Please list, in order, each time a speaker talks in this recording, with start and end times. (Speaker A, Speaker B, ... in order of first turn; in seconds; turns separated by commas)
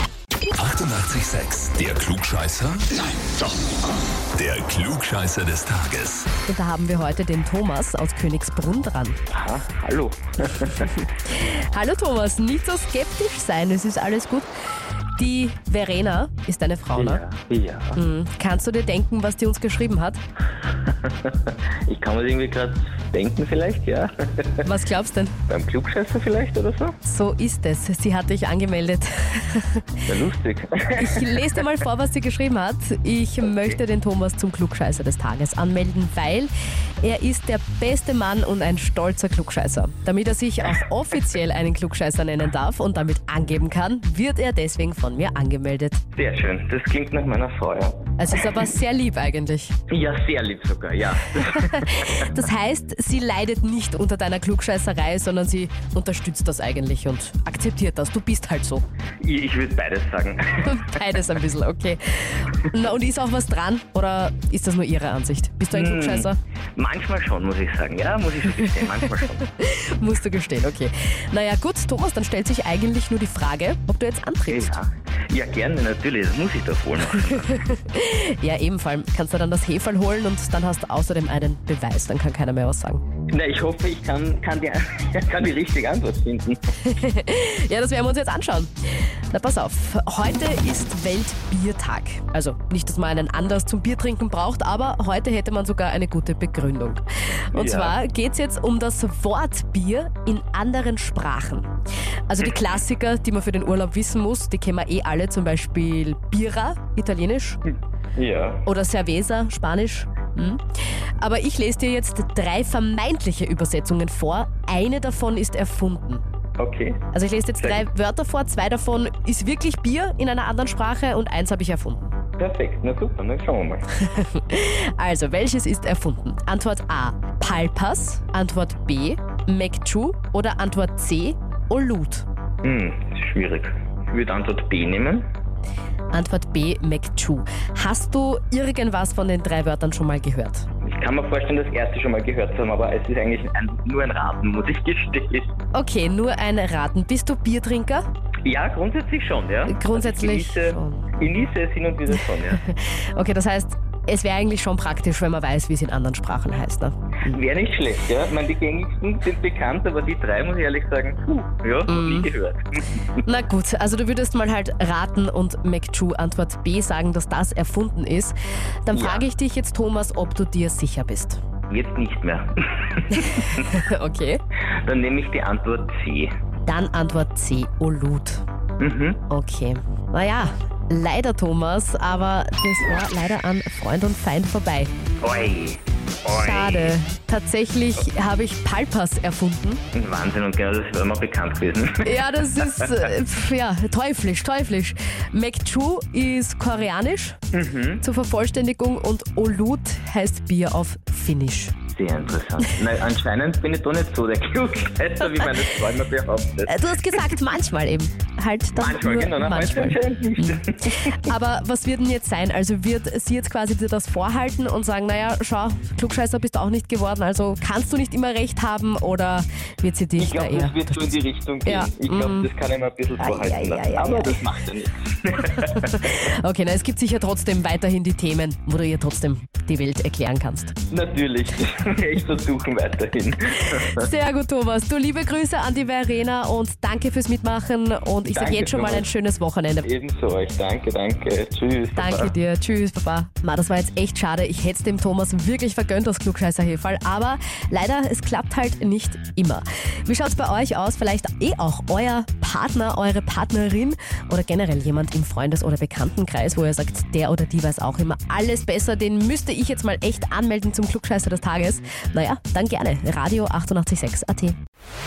Speaker A: 0.6-3.4, Speaker A: 4.3-6.3, Speaker B: 6.5-9.2, Speaker C: 9.3-10.9, Speaker B: 11.0-14.5, Speaker B: 15.2-17.2, Speaker C: 16.9-18.0, Speaker B: 17.9-20.2, Speaker C: 20.7-24.7, Speaker B: 24.6-25.4, Speaker C: 25.5-27.0, Speaker B: 27.0-29.9, Speaker C: 30.0-31.6, Speaker B: 30.9-36.5, Speaker B: 37.0-46.0, Speaker C: 46.1-48.1, Speaker B: 48.2-49.8, Speaker C: 49.9-52.4, Speaker B: 51.5-58.8, Speaker C: 59.2-61.0, Speaker B: 60.6-66.4, Speaker C: 65.7-69.4, Speaker B: 68.5-74.8, Speaker C: 74.5-77.6, Speaker B: 77.2-83.0, Speaker C: 83.3-86.6, Speaker B: 86.8-88.7, Speaker B: 89.3-101.7, Speaker C: 97.5-98.0, Speaker B: 102.3-107.6, Speaker C: 108.2-108.6, Speaker B: 108.7-116.2, Speaker C: 116.6-117.0, Speaker B: 117.1-122.2, Speaker C: 122.4-123.8, Speaker B: 123.9-132.3, Speaker C: 132.6-135.2, Speaker B: 136.1-140.7, Speaker C: 140.8-145.5, Speaker B: 145.7-148.0, Speaker C: 148.4-152.6, Speaker B: 149.7-151.1, Speaker B: 152.6-157.4, Speaker C: 157.3-163.2, Speaker B: 161.9-162.3, Speaker B: 163.2-171.4, Speaker C: 168.9-169.2, Speaker C: 171.7-173.7, Speaker B: 173.1-174.4, Speaker C: 174.8-176.3, Speaker B: 176.7-178.4, Speaker C: 178.8-179.2, Speaker B: 179.3-184.9, Speaker C: 185.2-186.9, Speaker B: 186.2-189.8, Speaker C: 189.9-193.0, Speaker B: 192.0-197.4, Speaker C: 197.5-198.0, Speaker B: 198.0-201.8, Speaker C: 201.9-207.3, Speaker B: 206.7-221.1, Speaker C: 208.8-211.3, Speaker C: 220.2-226.0, Speaker B: 221.6-222.5, Speaker B: 223.2-224.4, Speaker B: 225.4-230.8, Speaker C: 230.9-234.1, Speaker B: 233.7-239.9, Speaker C: 238.2-239.1, Speaker C: 239.8-242.3, Speaker B: 241.9-264.6